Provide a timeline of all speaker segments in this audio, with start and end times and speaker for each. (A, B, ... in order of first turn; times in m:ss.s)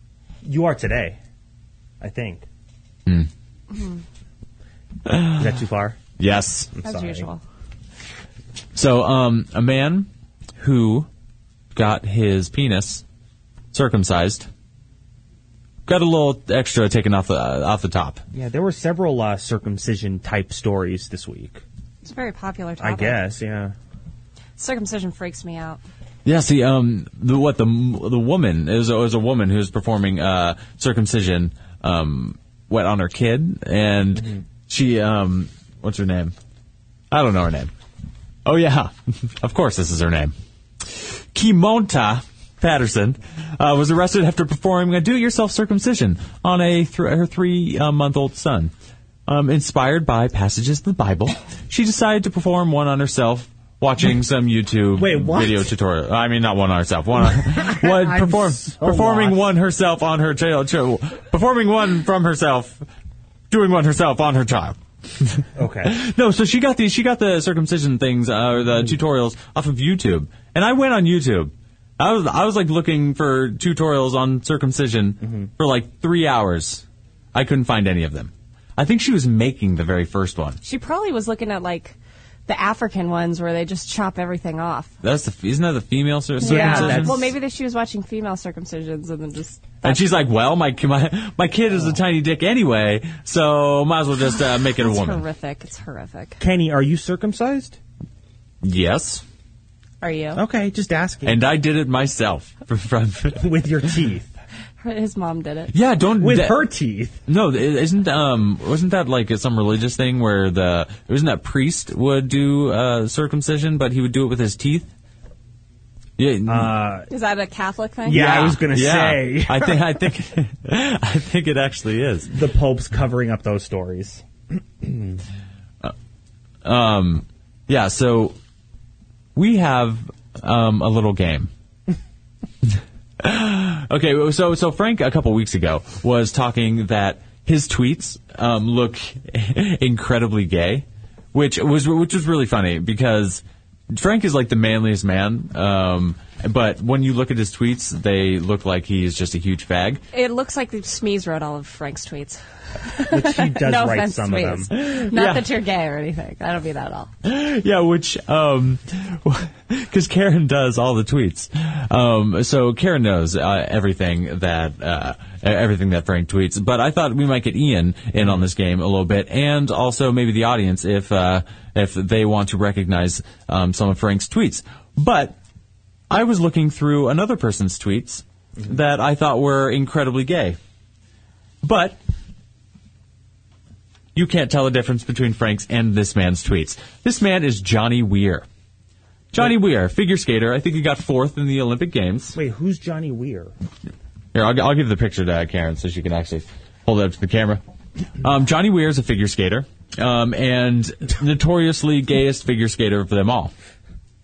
0:00.4-0:01.2 A
0:02.0-0:02.4 A
0:03.7-0:04.0 B
0:05.1-0:05.5 C
0:05.3-0:06.0 A
0:06.2-0:06.7 C
0:06.7-0:07.3 A
0:06.8-0:07.4 B
0:08.7-0:11.1 C
0:11.7-0:13.0 C
0:13.7-0:14.5 C
0:15.8-0:18.2 C
0:18.3-0:21.6 A
0:22.0-0:23.2 B
0:22.8-0:23.7 A
0:24.6-0:25.8 B
0:26.2-0:36.3 C
0:37.1-0:37.7 C
0:38.4-0:48.7 C
0:49.3-1:02.8 C
0:55.0-0:55.7 A
0:57.2-0:59.4 A
1:03.5-1:20.6 C
1:05.6-1:05.9 A
1:15.2-1:15.5 A
1:20.6-1:24.9 B
1:25.0-1:27.2 C
1:26.4-1:27.3 A
1:26.4-1:30.2 B
1:29.8-1:35.2 C
1:34.8-1:36.4 B
1:36.4-1:37.8 A
1:38.6-1:39.2 C
1:40.0-1:40.4 B
1:40.3-1:41.4 A
1:41.2-1:43.4 C
1:43.3-1:44.3 A
1:44.8-1:45.7 B
1:45.7-1:46.6 C
1:46.2-1:47.2 A
1:47.3-1:54.9 C
1:56.2-1:56.7 C
1:56.4-1:57.1 A
1:57.1-1:58.2 B
1:58.0-1:59.8 A
1:58.1-2:02.3 C
2:02.3-2:04.2 A
2:04.8-2:05.2 A
2:06.6-2:08.4 C
2:09.3-2:11.5 C
2:13.2-2:30.0 C
2:30.1-2:37.1 B
2:33.0-2:34.7 A
2:34.7-2:35.4 C
2:37.2-2:55.4 C
2:56.1-3:00.6 C
3:01.6-3:02.0 C
3:04.1-3:08.4 C
3:09.3-3:12.4 C
3:12.3-3:13.5 A
3:14.3-3:17.6 C
3:18.2-3:23.5 C